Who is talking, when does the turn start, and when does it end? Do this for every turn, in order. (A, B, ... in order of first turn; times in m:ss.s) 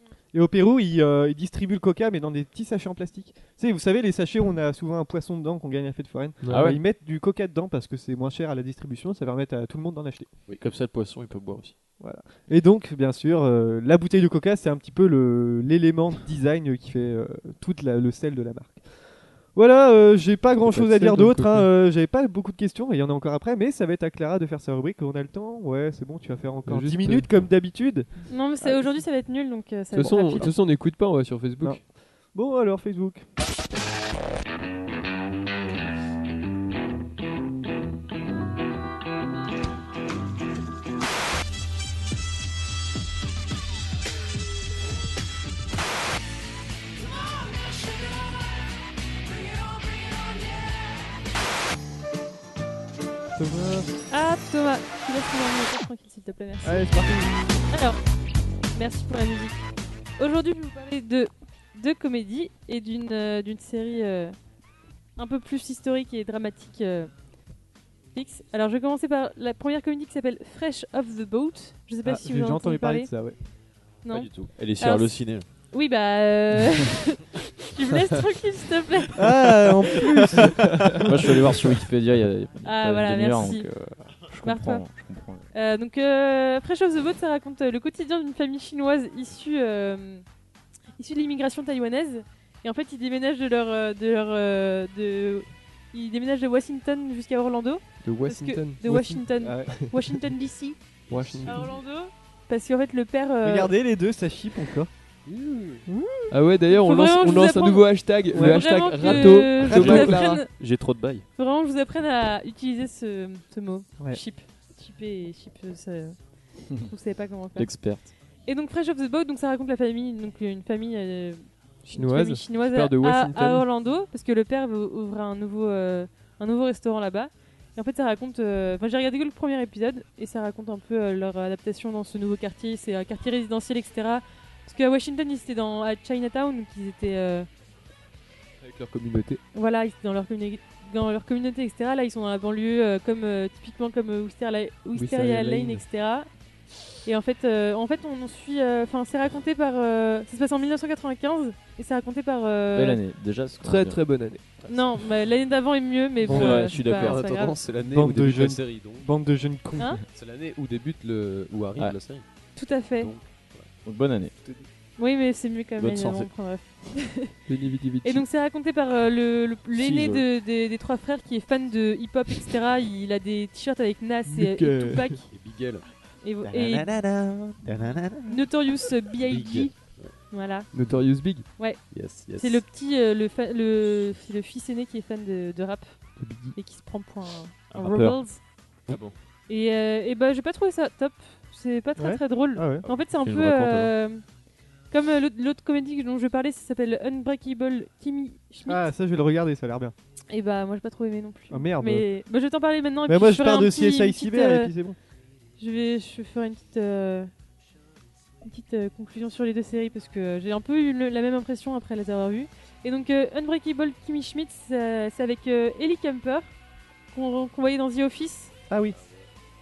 0:00.3-0:10.3 A
0:06.4-0:06.7 B
0:06.5-0:06.8 C
0:10.6-0:11.8 D
0:12.0-0:18.8 A
0:19.5-0:29.0 A
0:20.6-0:21.7 B
0:26.7-0:27.3 B
0:28.3-0:30.5 E
0:29.9-0:31.8 B
0:30.0-0:30.5 A
0:31.6-0:33.2 A
0:53.4-0:54.0 A
0:54.1-0:56.9 E
0:56.6-0:57.5 A
0:57.7-0:58.0 E
0:58.7-0:59.6 E
1:00.2-1:04.4 E
1:05.2-1:07.1 E
1:08.1-1:13.1 E
1:12.0-1:13.4 A
1:14.0-1:20.2 E
1:14.1-1:15.5 D
1:19.2-1:21.4 A
1:21.0-1:25.4 C
1:22.6-1:23.7 E
1:24.4-1:24.9 E
1:25.5-1:30.2 E
1:31.0-1:40.8 E
1:38.0-1:39.9 B
1:39.4-1:39.8 A
1:41.1-1:41.7 B
1:41.1-1:41.6 F
1:41.4-1:43.7 E
1:43.4-1:44.9 A
1:45.3-1:45.8 F
1:45.9-1:46.3 A
1:46.3-1:50.4 B
1:46.7-1:50.5 E
1:48.3-1:48.7 A
1:49.6-1:51.3 D
1:51.4-1:56.2 E
1:56.8-1:57.9 E
1:57.6-1:58.1 C
1:58.4-2:17.5 E
2:01.9-2:03.7 B
2:18.6-2:19.4 B
2:19.5-2:26.3 E
2:24.9-2:25.8 B
2:27.0-2:33.0 E
2:32.7-2:34.1 C
2:33.6-2:34.4 B
2:34.7-2:37.6 E
2:36.3-2:36.6 A
2:36.3-2:39.1 F
2:36.3-2:37.1 C
2:37.9-2:40.0 A
2:40.1-2:42.2 F
2:42.6-2:43.1 E
2:43.0-2:43.7 F
2:43.8-2:44.3 C
2:45.0-2:47.3 E
2:45.8-2:46.3 D
2:47.5-2:48.3 B
2:48.0-2:55.3 E
2:49.8-2:50.2 C
2:54.3-2:55.0 A
2:55.3-2:55.8 F
2:56.2-2:56.9 E
2:56.4-2:58.5 D
2:58.2-3:00.7 E
2:59.2-3:00.1 F
3:00.7-3:01.5 B
3:01.6-3:08.4 E
3:01.9-3:02.6 F
3:06.2-3:06.6 B
3:07.7-3:08.2 D
3:09.5-3:14.2 E
3:12.0-3:12.9 A
3:13.2-3:13.9 D
3:14.9-3:18.9 E
3:18.7-3:19.9 A
3:20.3-3:24.7 E
3:21.5-3:22.1 A
3:23.1-3:25.0 A
3:25.6-3:27.3 E
3:28.4-3:36.5 E
3:37.1-3:38.5 E
3:38.7-3:39.0 A